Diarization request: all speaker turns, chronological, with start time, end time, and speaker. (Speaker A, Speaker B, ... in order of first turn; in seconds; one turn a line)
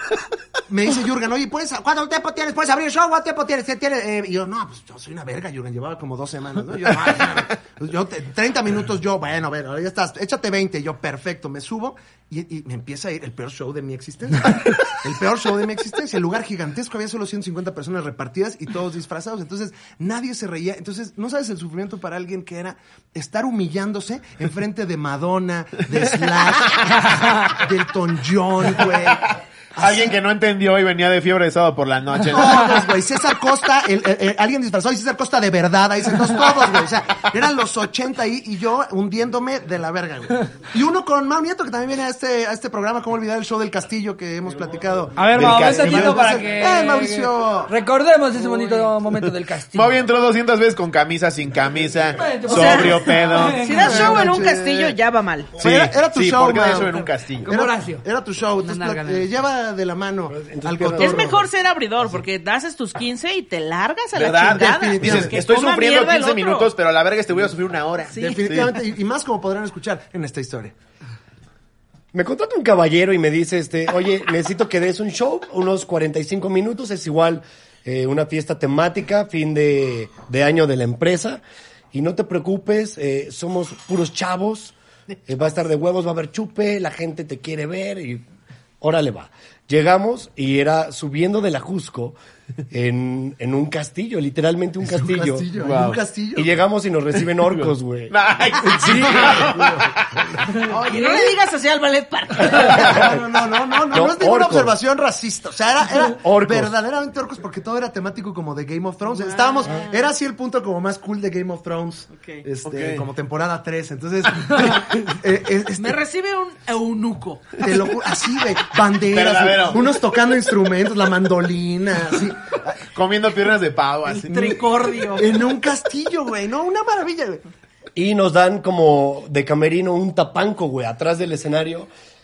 Speaker A: 0.7-30.1
Speaker B: 29.8-32.8
Speaker A: 32.3-47.7
Speaker C: 45.2-50.0
Speaker B: 45.3-46.3
Speaker B: 49.7-53.7
Speaker C: 52.2-54.3
Speaker D: 52.5-55.6
Speaker A: 53.7-55.0
Speaker A: 55.6-61.5
Speaker B: 55.6-57.5
Speaker C: 57.5-58.1
Speaker C: 58.6-59.3
Speaker E: 60.3-61.4
Speaker D: 61.0-66.7
Speaker B: 64.2-68.7
Speaker A: 64.5-65.4
Speaker D: 68.1-68.5
Speaker A: 68.2-70.8
Speaker E: 72.1-81.4
Speaker E: 81.9-84.8
Speaker E: 85.3-88.2
Speaker E: 88.8-92.2
Speaker E: 92.7-95.5
Speaker A: 94.8-96.5
Speaker B: 95.6-96.0
Speaker E: 96.3-99.5
Speaker B: 97.4-100.2
Speaker A: 98.9-101.3
Speaker D: 100.6-103.0
Speaker E: 102.5-103.2
Speaker A: 102.6-116.0
Speaker E: 103.9-104.7
Speaker E: 106.0-106.7
Speaker D: 109.1-110.1
Speaker D: 112.1-112.4
Speaker B: 112.7-113.0
Speaker D: 115.8-117.7
Speaker A: 117.6-122.8
Speaker B: 119.1-119.9
Speaker B: 122.9-124.4
Speaker D: 124.1-125.3
Speaker A: 124.3-127.4
Speaker E: 128.0-131.9